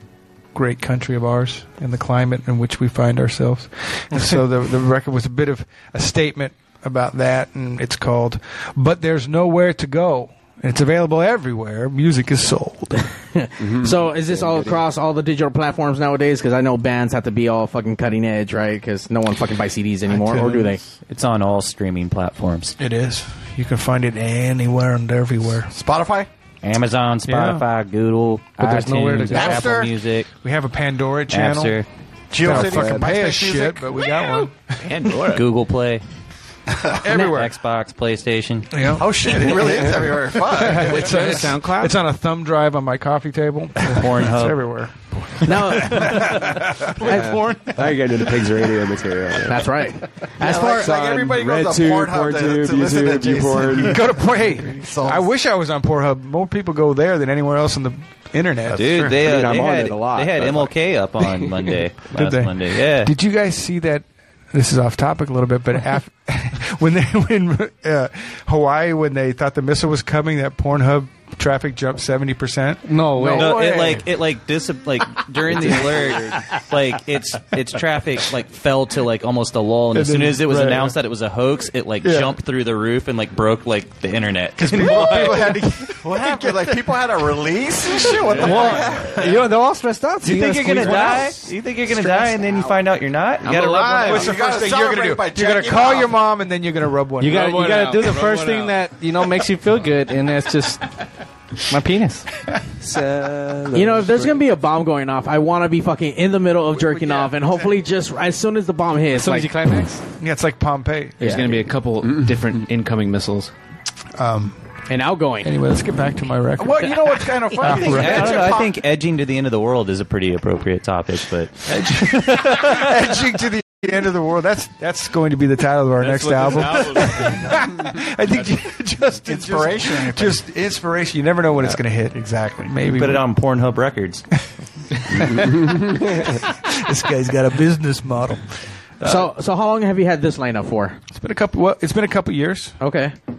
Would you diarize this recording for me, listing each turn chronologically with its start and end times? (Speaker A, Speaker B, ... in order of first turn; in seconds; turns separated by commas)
Speaker A: 0.5-13.1, Speaker B: 13.3-20.8, Speaker C: 13.6-14.8, Speaker A: 20.1-20.8, Speaker D: 21.1-22.8, Speaker A: 22.8-25.7, Speaker E: 25.7-26.3, Speaker D: 26.6-30.3, Speaker A: 27.2-27.6, Speaker F: 28.6-29.8, Speaker E: 29.3-29.9, Speaker A: 30.4-31.8, Speaker D: 31.3-31.9, Speaker E: 32.3-33.9, Speaker A: 32.3-34.6, Speaker G: 34.8-35.5, Speaker D: 35.3-36.0, Speaker E: 36.9-37.4, Speaker A: 37.0-37.5, Speaker D: 37.1-38.9, Speaker A: 38.7-39.1, Speaker E: 38.9-41.4, Speaker A: 40.6-47.2, Speaker G: 40.7-42.0, Speaker D: 43.9-44.8, Speaker B: 45.4-46.4, Speaker C: 47.0-49.6, Speaker B: 47.1-47.5, Speaker F: 47.1-47.7, Speaker B: 49.5-50.9, Speaker E: 50.4-55.3, Speaker C: 50.8-54.0, Speaker A: 53.9-59.0, Speaker C: 58.7-60.8, Speaker D: 58.8-63.1, Speaker A: 62.1-73.8, Speaker F: 72.9-73.6, Speaker E: 73.2-74.0, Speaker D: 73.3-85.5, Speaker A: 79.9-81.0, Speaker A: 82.0-82.3, Speaker A: 84.6-86.7, Speaker E: 84.8-89.5, Speaker G: 88.3-88.8, Speaker F: 88.3-91.4, Speaker A: 88.4-88.8, Speaker D: 90.2-94.3, Speaker A: 90.9-91.2, Speaker G: 93.4-94.3, Speaker A: 93.9-97.8, Speaker E: 94.0-96.1, Speaker F: 97.2-100.9, Speaker G: 97.3-98.8, Speaker F: 101.7-102.3, Speaker G: 102.8-104.1, Speaker C: 102.8-104.3, Speaker B: 103.7-109.5, Speaker A: 106.9-107.7, Speaker F: 109.1-110.0, Speaker A: 110.2-111.5, Speaker G: 111.2-113.5, Speaker C: 112.0-112.3, Speaker A: 114.2-114.6, Speaker B: 114.9-115.5, Speaker A: 115.4-118.5, Speaker E: 116.6-118.7, Speaker D: 117.6-122.9, Speaker A: 121.7-133.3, Speaker G: 126.0-127.3, Speaker E: 129.2-130.4, Speaker E: 132.1-132.7, Speaker D: 132.9-134.3, Speaker A: 135.1-139.3, Speaker B: 139.0-141.0, Speaker A: 141.1-142.8, Speaker B: 142.8-143.1